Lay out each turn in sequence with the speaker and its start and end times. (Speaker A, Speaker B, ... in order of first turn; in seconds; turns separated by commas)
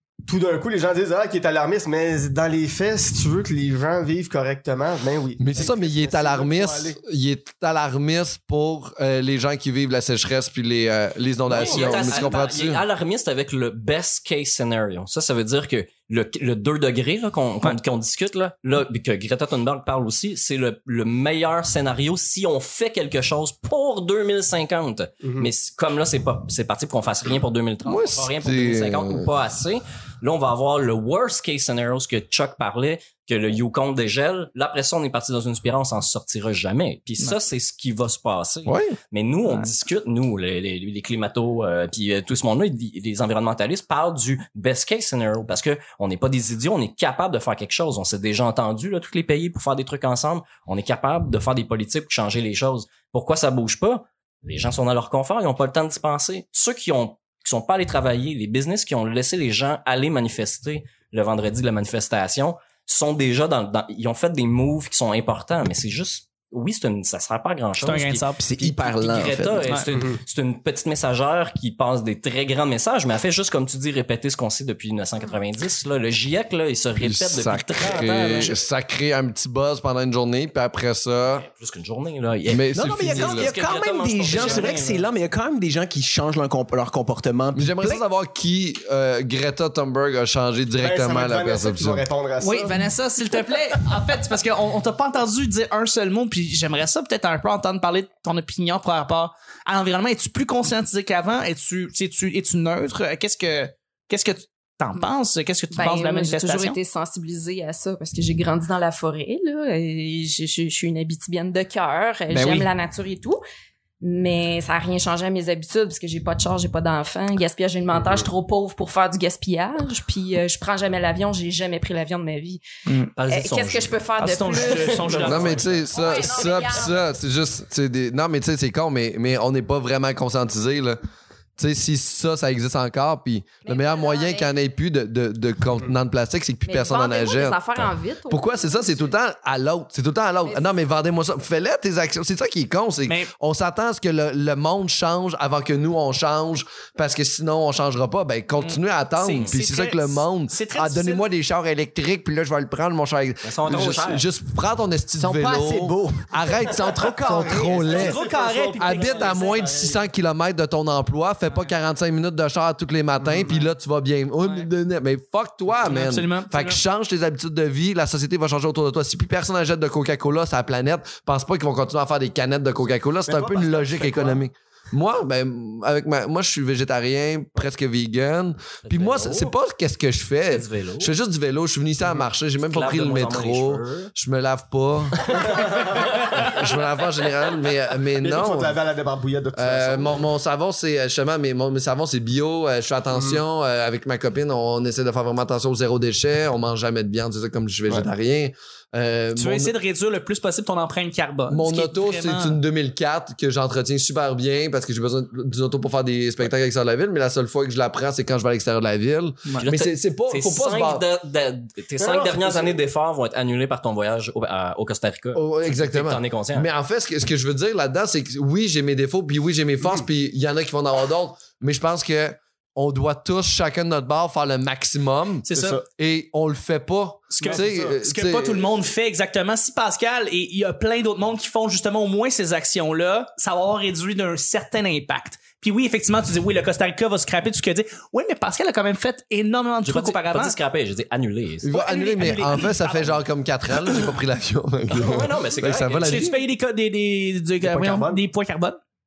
Speaker A: 0.2-7.0, Speaker B: 5.4-12.8, Speaker C: 11.5-78.6, Speaker A: 11.6-12.0, Speaker A: 25.2-25.5, Speaker B: 27.8-29.3, Speaker B: 38.6-39.0, Speaker D: 67.8-68.5, Speaker E: 68.4-69.7, Speaker A: 69.9-70.2, Speaker B: 77.0-81.5, Speaker C: 81.3-85.1, Speaker B: 82.5-83.5, Speaker E: 82.7-88.0, Speaker D: 84.3-84.6, Speaker B: 87.5-92.0, Speaker A: 90.8-92.9, Speaker D: 92.4-106.8, Speaker F: 105.7-113.4, Speaker D: 112.3-112.7, Speaker F: 114.0-122.6, Speaker A: 117.9-118.3, Speaker D: 122.9-123.1, Speaker C: 123.2-125.9, Speaker F: 123.3-125.4, Speaker D: 124.2-125.7, Speaker B: 125.2-131.0, Speaker F: 125.9-127.0, Speaker B: 131.6-158.2, Speaker F: 133.6-134.5, Speaker F: 136.7-139.0, Speaker D: 148.6-151.2, Speaker C: 153.4-154.3, Speaker E: 155.2-156.4, Speaker E: 156.9-158.0, Speaker A: 157.6-160.0, Speaker D: 157.8-159.6, Speaker B: 158.8-188.8, Speaker A: 163.2-163.5, Speaker D: 164.4-164.7, Speaker D: 165.8-166.8, Speaker A: 173.3-174.4, Speaker C: 178.8-179.5, Speaker C: 180.5-181.1, Speaker C: 182.6-184.1, Speaker A: 185.3-186.2, Speaker A: 188.2-190.2, Speaker B: 189.5-199.7, Speaker A: 193.1-193.4, Speaker D: 199.3-202.6, Speaker B: 201.5-211.0, Speaker C: 209.6-216.7, Speaker A: 212.0-212.8, Speaker B: 215.3-228.7, Speaker D: 225.5-225.8, Speaker A: 225.5-225.8, Speaker D: 227.3-240.6, Speaker A: 227.4-227.9, Speaker C: 239.8-241.7, Speaker B: 241.6-246.4, Speaker D: 241.7-243.2, Speaker C: 244.9-246.2, Speaker D: 246.0-248.8, Speaker A: 247.6-248.2